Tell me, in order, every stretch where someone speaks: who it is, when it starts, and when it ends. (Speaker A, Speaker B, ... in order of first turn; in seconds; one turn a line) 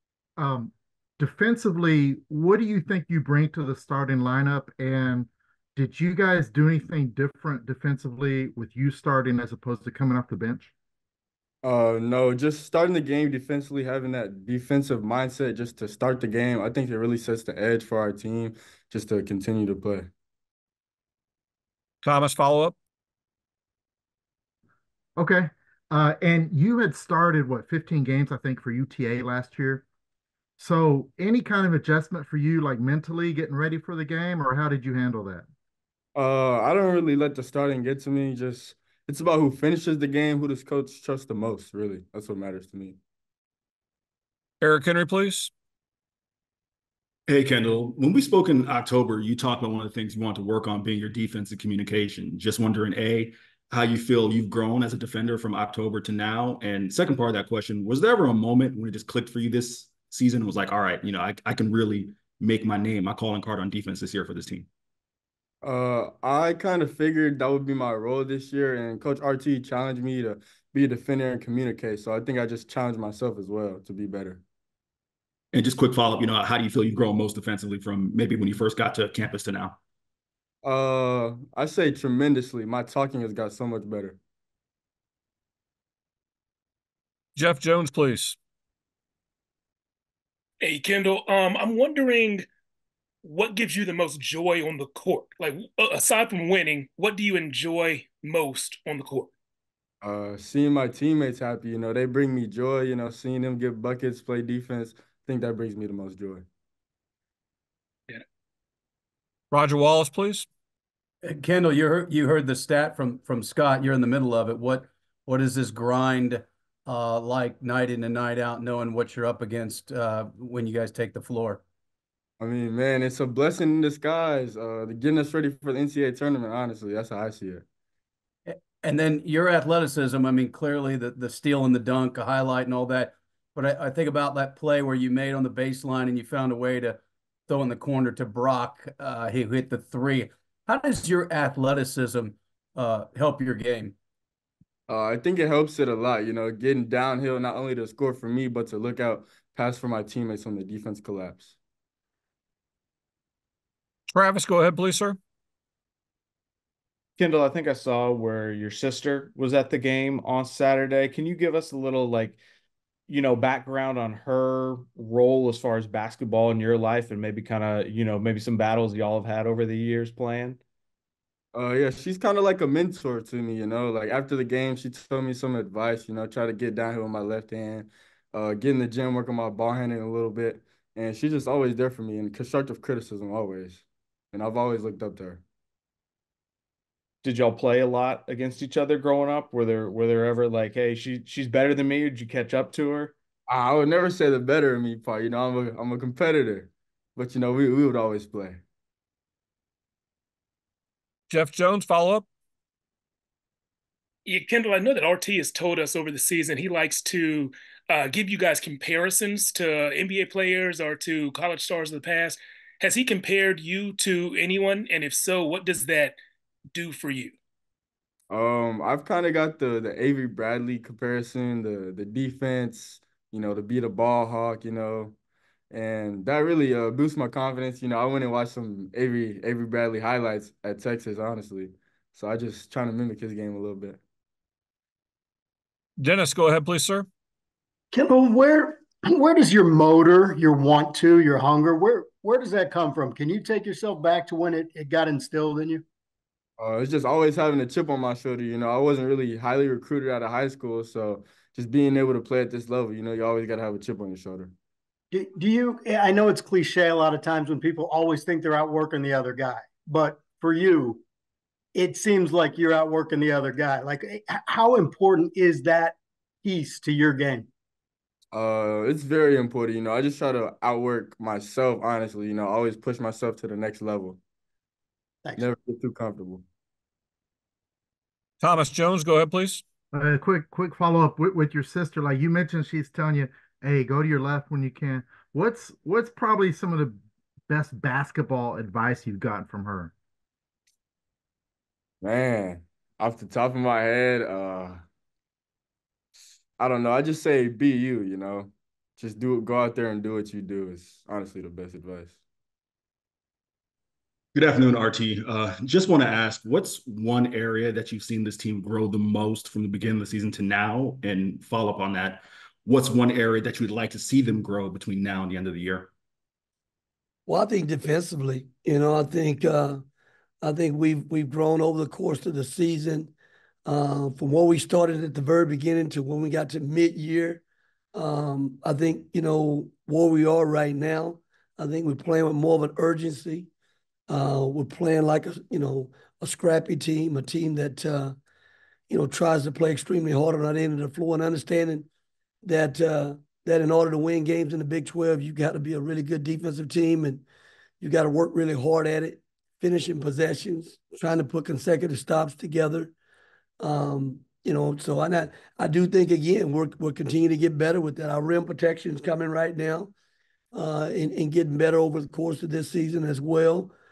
Speaker A: 0.4-10.7
Speaker B: 11.6-20.1
Speaker C: 22.0-22.7
Speaker A: 25.2-29.8
Speaker A: 30.6-35.5
Speaker B: 36.1-43.0
Speaker C: 44.6-45.5
Speaker D: 47.3-64.7
Speaker B: 65.6-74.4
Speaker D: 75.5-79.8
Speaker B: 80.6-84.2
Speaker C: 87.3-88.4
Speaker E: 90.6-92.5
Speaker E: 93.2-99.3
Speaker B: 100.0-106.5
Speaker C: 109.5-110.5
Speaker F: 111.2-121.6
Speaker B: 122.4-127.6
Speaker F: 128.5-143.9
Speaker B: 144.9-151.6
Speaker C: 154.1-155.2
Speaker G: 157.2-162.4
Speaker G: 163.1-170.6
Speaker B: 171.5-185.4
Speaker G: 187.2-193.1
Speaker B: 193.5-198.6
Speaker C: 201.3-202.2
Speaker E: 204.2-216.2
Speaker E: 216.7-217.3
Speaker B: 218.3-225.1
Speaker B: 225.7-234.0
Speaker C: 236.0-237.1
Speaker H: 237.9-245.8
Speaker B: 246.6-254.5
Speaker H: 255.1-261.0
Speaker H: 261.7-267.5
Speaker B: 268.3-274.2
Speaker B: 275.4-276.4
Speaker C: 278.4-279.6
Speaker A: 279.9-289.9
Speaker B: 292.0-294.8
Speaker B: 296.6-302.2
Speaker D: 304.3-315.9
Speaker I: 317.3-319.8
Speaker I: 320.4-323.1
Speaker I: 323.6-327.4
Speaker I: 327.9-333.5
Speaker I: 334.1-338.1
Speaker I: 338.9-341.9
Speaker I: 342.4-347.2
Speaker I: 347.8-352.9
Speaker I: 353.6-359.9
Speaker I: 360.5-363.7